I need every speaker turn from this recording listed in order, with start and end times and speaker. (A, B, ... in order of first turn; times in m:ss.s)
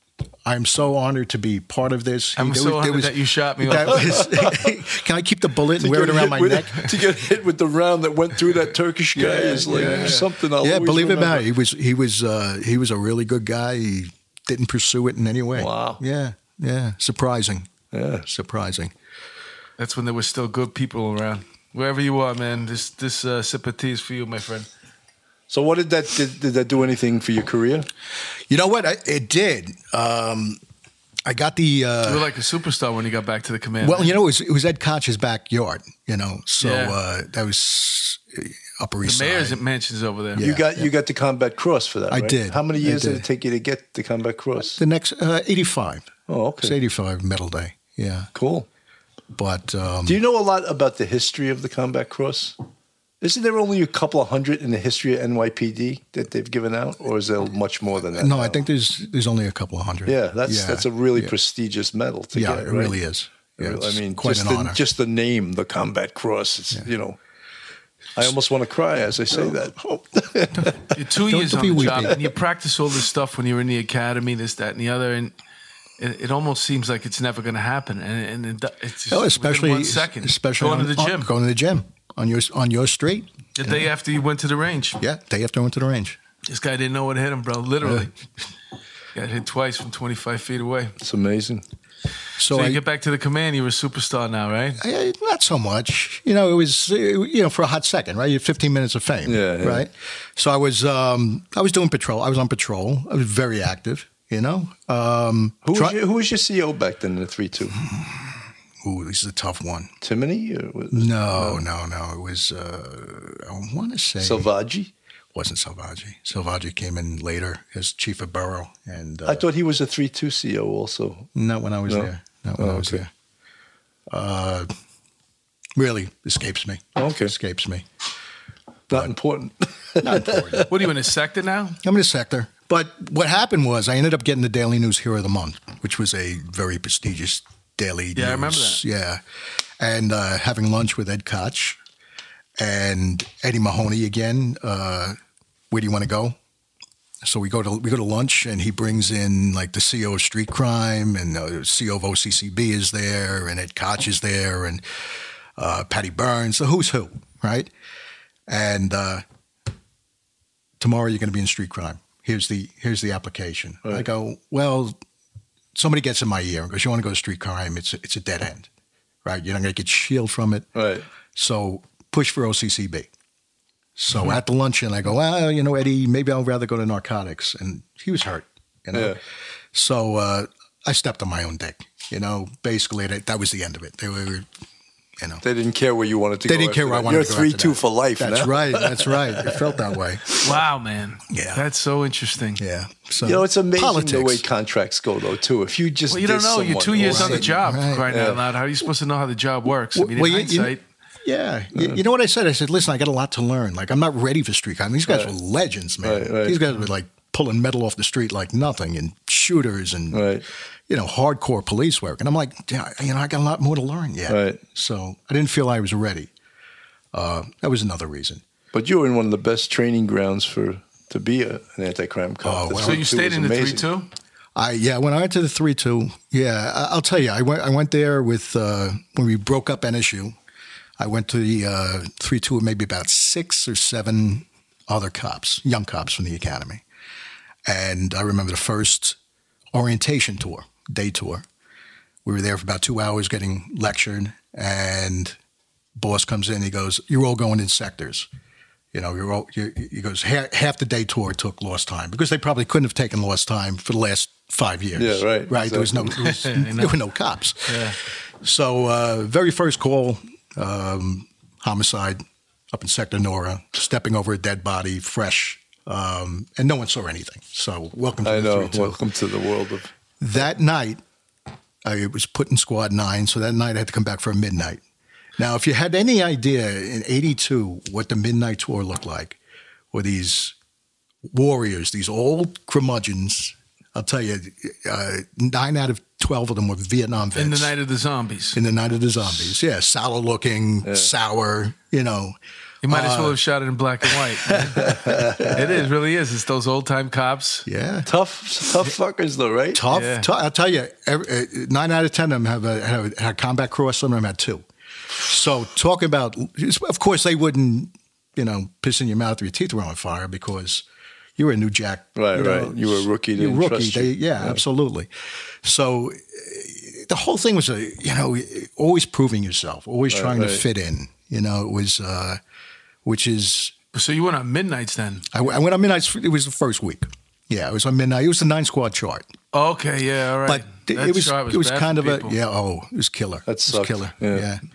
0:00.4-0:07.0 A
0:02.4-0:04.3 B
0:04.0-0:04.5 C
0:05.8-0:11.4 C
0:09.2-0:17.7 A
0:09.7-0:10.2 B
0:15.5-0:16.0 C
0:17.9-0:18.2 C
0:18.2-0:18.9 A
0:19.8-0:24.7 B
0:25.5-0:27.9 C
0:28.5-0:30.6 A
0:31.2-0:32.3 A
0:32.0-0:34.2 B
0:33.8-0:39.6 A
0:36.6-0:37.0 B
0:39.0-0:40.5 B
0:40.4-0:40.9 A
0:40.4-0:44.8 C
0:42.1-0:43.2 A
0:44.7-0:48.3 A
0:46.3-0:46.8 C
0:48.3-0:48.7 C
0:49.3-0:50.2 A
0:50.0-0:52.6 C
0:53.2-0:58.6 C
0:58.1-1:01.3 A
1:00.0-1:03.0 C
1:02.3-1:04.8 A
1:03.6-1:07.2 C
1:08.2-1:10.7 C
1:09.3-1:12.2 A
1:10.9-1:15.3 B
1:16.0-1:21.3 B
1:19.1-1:23.8 A
1:23.6-1:25.0 B
1:25.0-1:26.2 A
1:26.4-1:28.1 B
1:27.8-1:28.1 A
1:29.1-1:30.9 B
1:31.0-1:31.6 C
1:32.4-1:32.8 A
1:32.5-1:34.8 B
1:34.8-1:46.0 A
1:39.3-1:39.8 C
1:45.6-1:47.8 C
1:47.8-1:49.9 A
1:50.0-1:51.6 C
1:50.9-1:54.5 A
1:54.2-1:54.9 C
1:55.3-1:59.4 A
1:59.2-2:01.3 C
2:01.3-2:03.1 A
2:01.9-2:03.0 C
2:04.1-2:04.7 A
2:05.8-2:07.8 A
2:07.0-2:07.3 C
2:08.9-2:10.7 C
2:10.0-2:10.7 A
2:10.7-2:11.8 B
2:11.8-2:19.2 A
2:18.1-2:18.8 B
2:19.8-2:21.8 A
2:22.6-2:25.2 A
2:25.7-2:26.4 A
2:27.2-2:34.8 A
2:35.6-2:37.7 A
2:38.5-2:39.2 A
2:40.8-2:45.0 A
2:45.7-2:48.7 A
2:49.2-2:50.7 A
2:50.8-2:51.0 C
2:51.3-2:53.1 A
2:54.0-2:59.2 A
2:58.9-2:59.2 C
2:59.7-3:04.5 A
3:05.4-3:10.4 C
3:06.4-3:10.4 A
3:10.4-3:12.6 B
3:11.3-3:11.6 A
3:12.6-3:14.4 A
3:13.2-3:18.4 C
3:16.1-3:20.8 B
3:17.0-3:18.1 A
3:19.9-3:20.7 A
3:21.2-3:30.3 A
3:25.1-3:25.3 C
3:26.0-3:26.6 C
3:30.1-3:30.4 C
3:30.9-3:36.3 A
3:34.3-3:34.6 C
3:37.1-3:38.4 A
3:38.7-3:43.9 C
3:42.4-3:43.0 A
3:42.7-3:44.1 B
3:44.6-3:50.3 A
3:51.0-3:56.8 A
3:57.6-3:59.2 A
3:59.7-4:01.4 A
4:02.2-4:05.4 A
4:06.0-4:08.3 A
4:08.9-4:22.2 A
4:15.0-4:16.2 C
4:16.2-4:17.0 B
4:17.6-4:18.0 B
4:22.7-4:29.0 A
4:28.2-4:29.9 C
4:30.2-4:31.0 A
4:31.8-4:34.8 A
4:35.4-4:39.4 A
4:39.9-4:40.5 A
4:41.3-4:47.7 A
4:47.3-4:48.6 B
4:48.5-4:52.3 A
4:50.8-4:51.1 C
4:52.8-4:57.6 B
4:52.9-4:53.4 A
4:54.5-4:54.9 A
4:54.8-4:55.8 C
4:57.6-4:58.1 A
4:58.0-4:59.8 C
4:59.7-5:10.8 A
4:59.9-5:00.3 B
5:11.4-5:15.1 A
5:12.2-5:14.6 C
5:15.6-5:22.4 A
5:20.1-5:20.6 C
5:23.0-5:23.7 A
5:23.9-5:25.3 B
5:25.3-5:29.3 A
5:29.5-5:32.4 B
5:30.4-5:34.6 A
5:33.5-5:34.5 C